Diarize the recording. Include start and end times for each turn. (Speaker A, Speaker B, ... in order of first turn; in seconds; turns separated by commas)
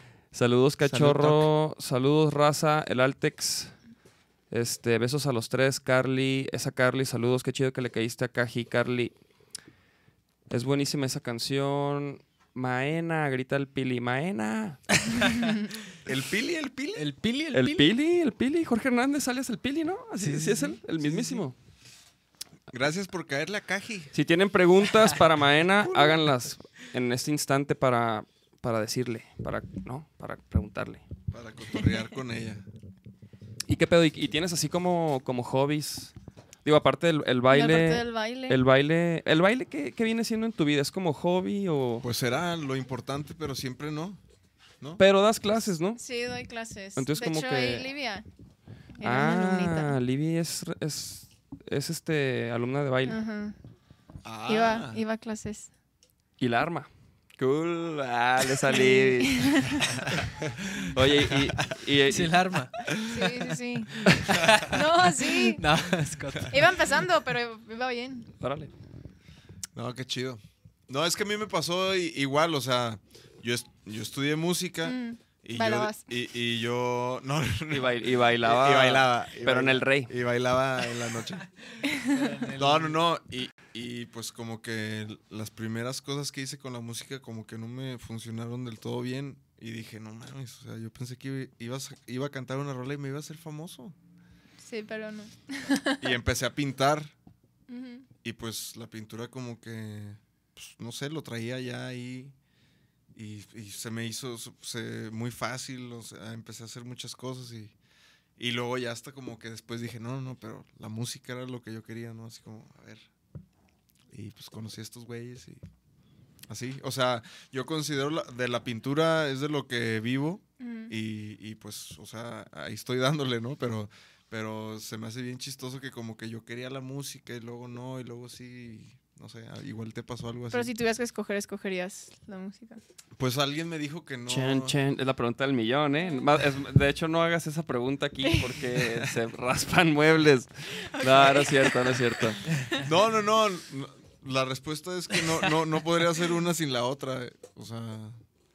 Speaker A: 0.3-3.7, Speaker B: 0.8-1.5, Speaker A: 4.5-9.1, Speaker A: 10.5-14.8, Speaker C: 15.1-15.4, Speaker B: 16.1-17.1, Speaker C: 16.9-17.9, Speaker A: 17.5-21.5, Speaker C: 20.2-21.4, Speaker B: 22.7-24.1, Speaker A: 24.1-31.1, Speaker B: 25.8-26.3, Speaker B: 31.3-32.6, Speaker A: 33.7-36.1, Speaker A: 36.6-42.1, Speaker D: 37.5-38.6, Speaker B: 42.0-44.2, Speaker A: 45.0-46.0, Speaker D: 46.0-48.2, Speaker A: 47.0-47.9, Speaker D: 49.0-50.0, Speaker A: 49.0-53.2, Speaker D: 53.0-53.6, Speaker B: 54.2-55.0, Speaker D: 54.5-55.7, Speaker A: 56.4-59.7, Speaker D: 58.7-59.9, Speaker B: 59.9-61.8, Speaker A: 60.9-62.4, Speaker C: 62.1-62.7, Speaker B: 62.9-63.4, Speaker D: 63.1-64.0, Speaker C: 64.1-66.6, Speaker D: 64.7-65.7, Speaker D: 66.5-68.3, Speaker A: 68.4-68.7, Speaker B: 69.8-81.5, Speaker D: 74.8-76.0, Speaker A: 77.7-80.1, Speaker C: 82.1-83.0, Speaker B: 82.5-94.0, Speaker D: 94.6-96.1, Speaker B: 96.0-97.1, Speaker D: 97.7-98.1, Speaker B: 98.2-102.3, Speaker B: 103.2-107.8, Speaker B: 108.4-113.1, Speaker B: 114.1-115.6, Speaker B: 116.5-130.7, Speaker D: 120.6-120.9, Speaker D: 130.5-132.8, Speaker B: 133.2-134.8, Speaker A: 134.3-142.4, Speaker D: 138.2-138.5, Speaker D: 140.9-142.3, Speaker B: 142.8-148.2